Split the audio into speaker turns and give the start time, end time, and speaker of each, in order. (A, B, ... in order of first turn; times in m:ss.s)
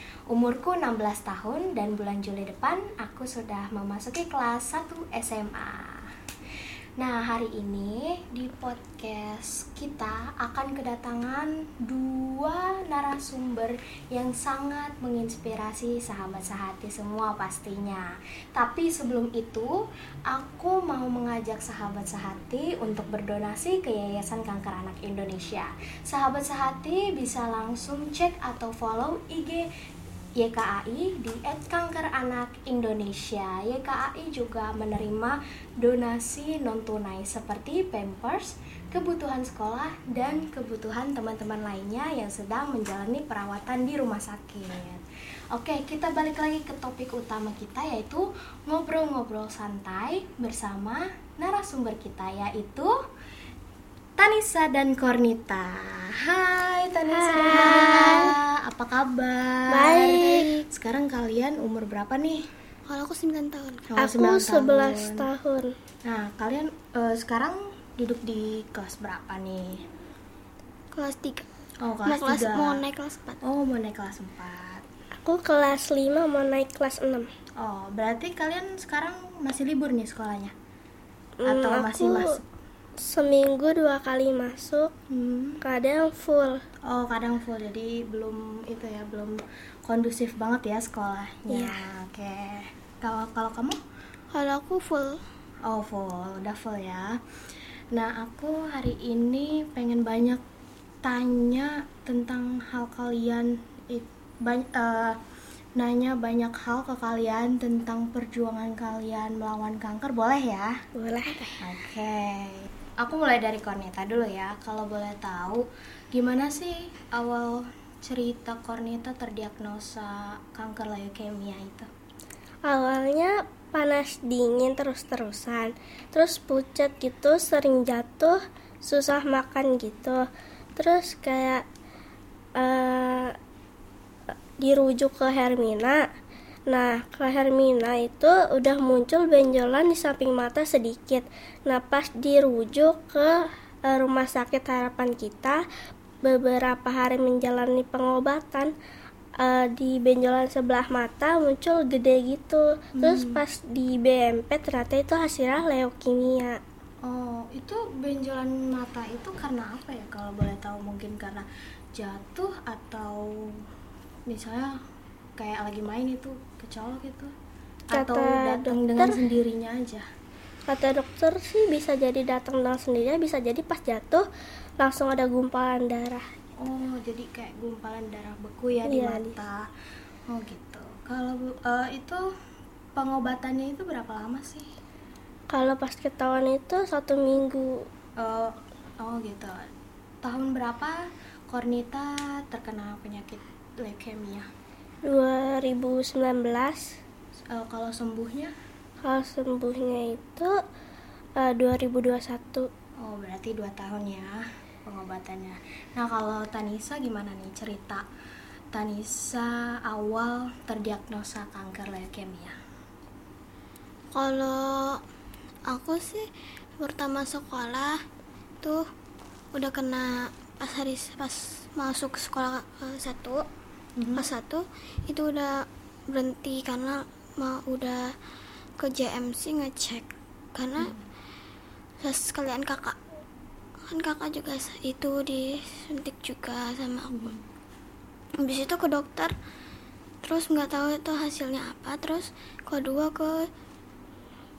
0:00.3-0:06.0 A
0:07.0-0:19.7 A
0:20.3-0:29.6 A
0:30.4-0:52.9 A
0:54.2-1:02.4 A
0:57.2-0:58.3 B
0:59.7-1:00.5 B
1:00.2-1:00.6 C
1:02.9-1:03.9 C
1:03.9-1:05.3 A
1:04.0-1:05.7 B
1:06.1-1:09.8 A
1:10.9-1:11.4 C
1:11.8-1:12.8 A
1:12.0-1:13.4 C
1:13.4-1:14.8 A
1:15.2-1:17.3 B
1:17.6-1:20.5 A
1:21.4-1:22.3 B
1:21.4-1:22.4 A
1:23.0-1:24.9 B
1:25.1-1:25.6 A
1:25.6-1:26.6 B
1:26.8-1:33.8 A
1:31.5-1:31.8 B
1:34.3-1:35.2 C
1:35.6-1:37.2 A
1:37.9-1:40.4 A
1:41.0-1:45.2 A
1:45.8-1:50.8 A
1:51.0-1:51.6 B
1:51.6-2:01.9 A
2:02.7-2:10.2 B
2:10.8-2:11.6 B
2:12.6-2:13.3 B
2:14.6-2:16.0 B
2:16.7-2:25.6 B
2:26.2-2:28.7 B
2:29.4-2:36.6 B
2:33.0-2:33.4 A
2:37.0-2:43.6 A
2:44.3-2:44.7 A
2:45.4-2:47.3 A
2:47.9-2:50.0 A
2:47.9-2:49.1 B
2:50.7-2:54.2 B
2:54.8-2:56.2 B
2:56.6-2:59.7 A
2:58.9-2:59.4 B
3:00.3-3:02.2 A
3:03.0-3:04.7 A
3:05.5-3:07.8 B
3:08.2-3:09.6 A
3:10.2-3:14.5 A
3:15.0-3:17.0 B
3:17.5-3:18.5 A
3:19.0-3:20.5 B
3:21.4-3:22.7 B
3:23.0-3:24.3 A
3:24.8-3:28.0 A
3:28.7-3:32.5 A
3:34.1-3:35.0 C
3:35.7-3:36.3 C
3:36.8-3:38.0 C
3:39.5-3:43.4 C
3:44.0-3:44.3 A
3:44.1-3:48.1 C
3:48.8-3:50.9 C
3:52.0-3:53.0 C
3:53.9-3:57.3 C
3:57.1-3:57.4 A
3:58.4-3:59.3 C
4:00.2-4:03.5 C